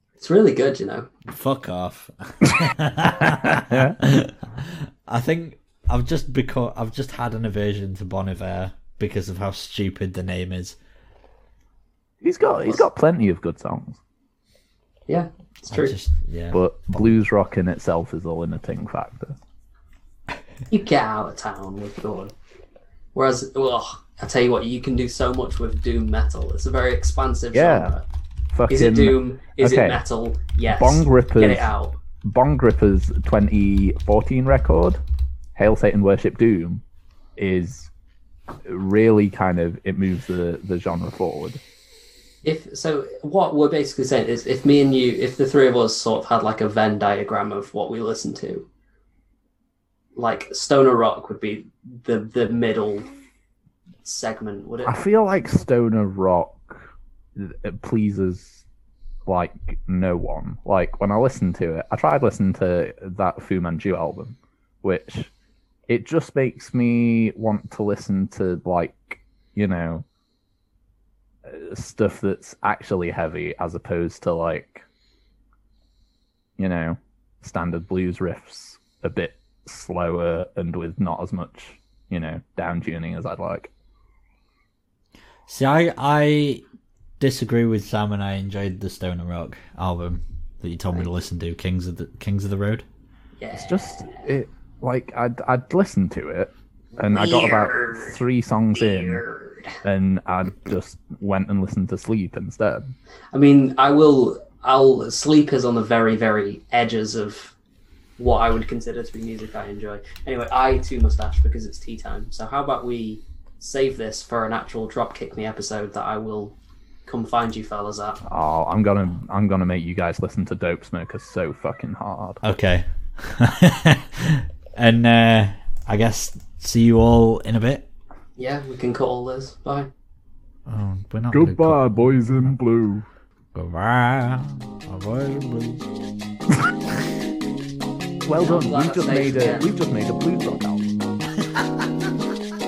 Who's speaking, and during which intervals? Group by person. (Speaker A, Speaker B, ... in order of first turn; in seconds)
Speaker A: 0.2-1.1, 15.1-16.0, 20.7-22.3, 23.1-28.1, 28.7-32.0, 42.4-48.7, 50.1-53.1, 54.0-55.0, 93.4-93.7, 97.1-98.2, 98.8-99.8, 103.3-107.5, 108.2-118.2, 128.4-129.9, 138.4-139.7
Speaker B: 1.3-10.8, 15.7-17.1, 85.5-86.6, 87.2-92.8, 122.4-127.9, 130.7-132.5, 133.6-135.9
Speaker C: 3.2-4.0, 12.2-14.0, 16.5-19.4, 27.5-27.9, 28.5-30.0, 30.7-31.7, 32.2-35.0, 35.6-36.8, 37.4-37.9, 38.6-41.6, 54.9-58.6, 59.3-65.3, 65.9-70.0, 71.5-74.8, 76.6-83.7, 93.5-99.2, 99.8-102.9, 118.3-122.4, 131.3-133.1, 138.2-141.0